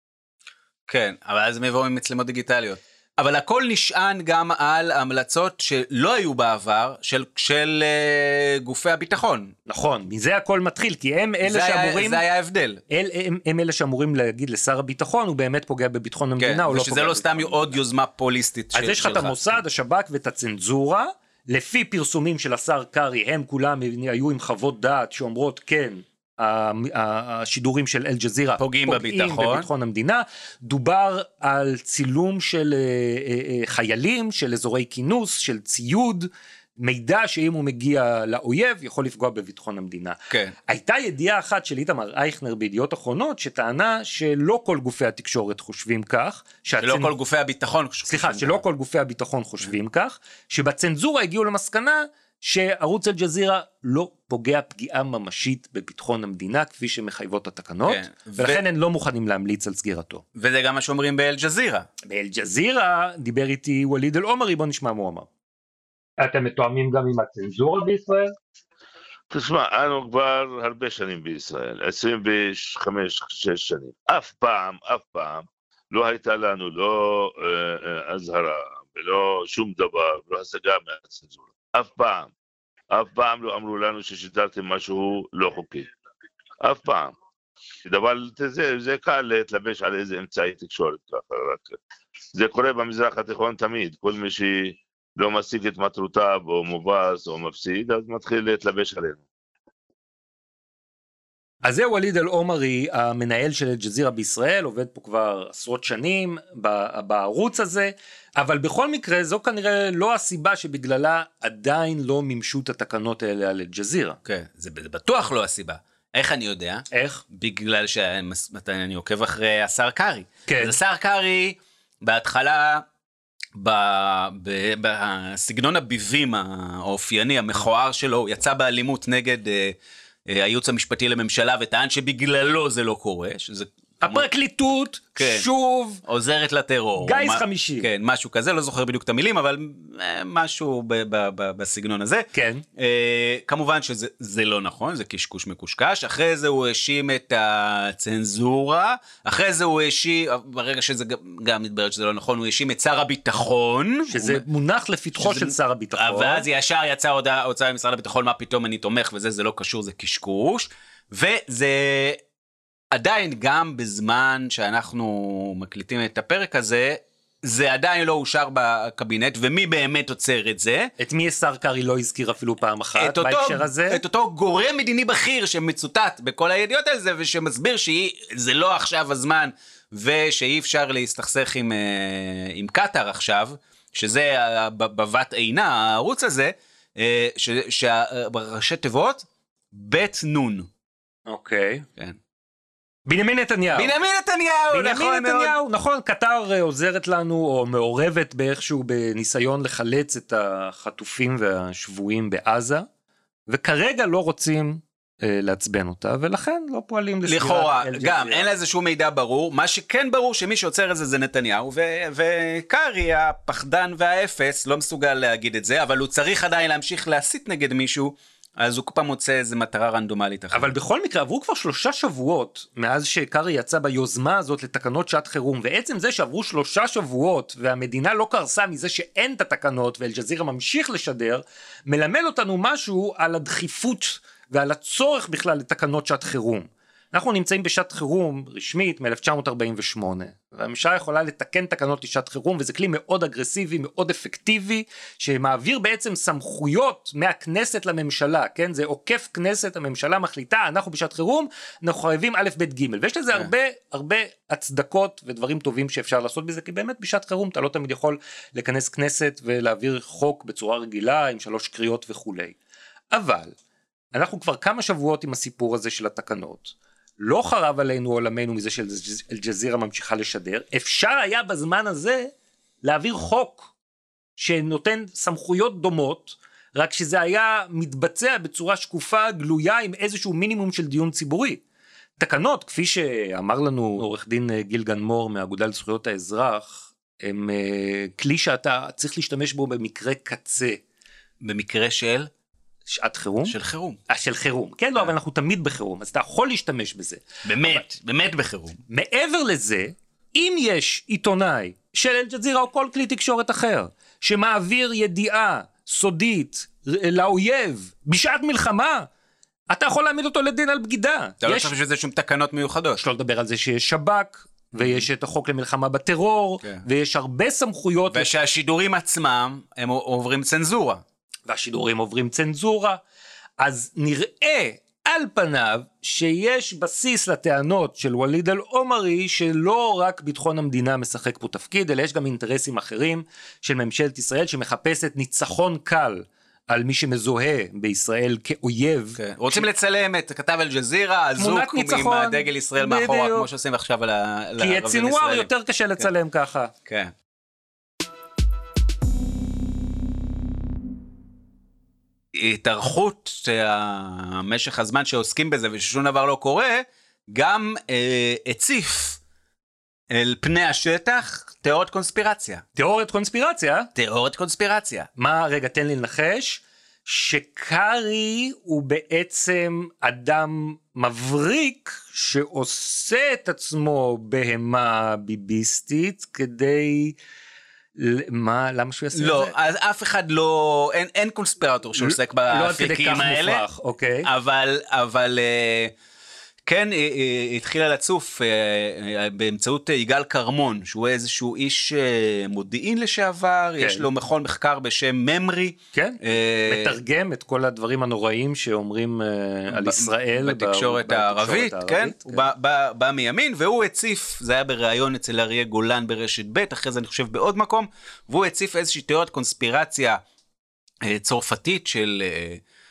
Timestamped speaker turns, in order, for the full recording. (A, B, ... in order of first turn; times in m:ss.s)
0:00.9-0:09.5 A
0:09.7-0:12.2 B
0:11.4-0:12.8 A
0:12.9-0:17.8 B
0:16.4-0:19.6 A
0:18.7-0:40.2 B
0:28.6-0:29.7 A
0:40.3-0:40.6 A
0:40.7-0:47.1 B
0:46.8-0:48.6 A
0:48.1-1:00.2 B
0:57.8-0:58.6 A
1:00.4-1:01.9 A
1:02.1-1:05.3 B
1:06.2-1:08.3 B
1:09.3-1:22.3 C
1:22.9-1:25.9 C
1:26.6-1:27.2 C
1:27.9-1:31.8 C
1:32.4-1:39.2 C
1:41.6-1:54.2 B
1:54.3-2:02.8 A
1:56.9-1:57.2 B
2:00.5-2:00.8 B
2:03.6-2:14.3 A
2:14.0-2:16.0 B
2:15.2-2:15.5 A
2:16.0-2:34.4 A
2:17.0-2:17.9 B
2:22.3-2:22.6 B
2:34.1-2:36.4 B
2:35.2-2:42.2 A
2:42.9-2:50.9 A
2:51.0-2:54.0 B
2:53.0-3:10.7 A
3:11.3-3:11.8 B
3:13.1-3:13.9 B
3:13.7-3:15.6 A
3:14.7-3:22.9 B
3:23.5-3:28.5 B
3:27.3-3:40.7 A
3:40.5-4:22.6 B
4:23.1-4:23.5 B
4:24.1-4:32.3 B
4:32.8-4:33.7 B
4:34.4-4:41.6 B
4:42.2-4:50.8 B
4:51.4-4:52.3 A
4:52.9-4:53.6 B
4:53.4-4:54.0 A
4:54.1-4:57.8 B
4:57.4-4:58.8 A
4:58.9-5:09.1 B
5:09.7-5:11.8 B
5:11.4-5:13.0 A
5:13.0-5:18.3 B
5:14.8-5:15.1 A
5:18.1-5:21.0 A
5:21.5-5:23.0 B
5:23.6-5:39.7 B
5:39.2-5:46.1 A
5:41.4-5:43.5 B
5:44.6-5:46.7 B
5:46.9-5:47.1 A
5:52.3-5:59.2 A
6:00.1-6:02.6 A
6:02.8-6:03.9 B
6:04.0-6:05.1 A
6:05.2-6:17.2 B
6:18.0-6:19.5 B
6:19.2-6:23.7 A
6:22.0-6:24.3 B
6:24.2-6:25.9 A
6:26.6-6:37.0 A
6:33.8-6:34.1 B
6:35.9-6:42.5 B
6:39.7-6:50.2 A
6:51.0-6:52.6 A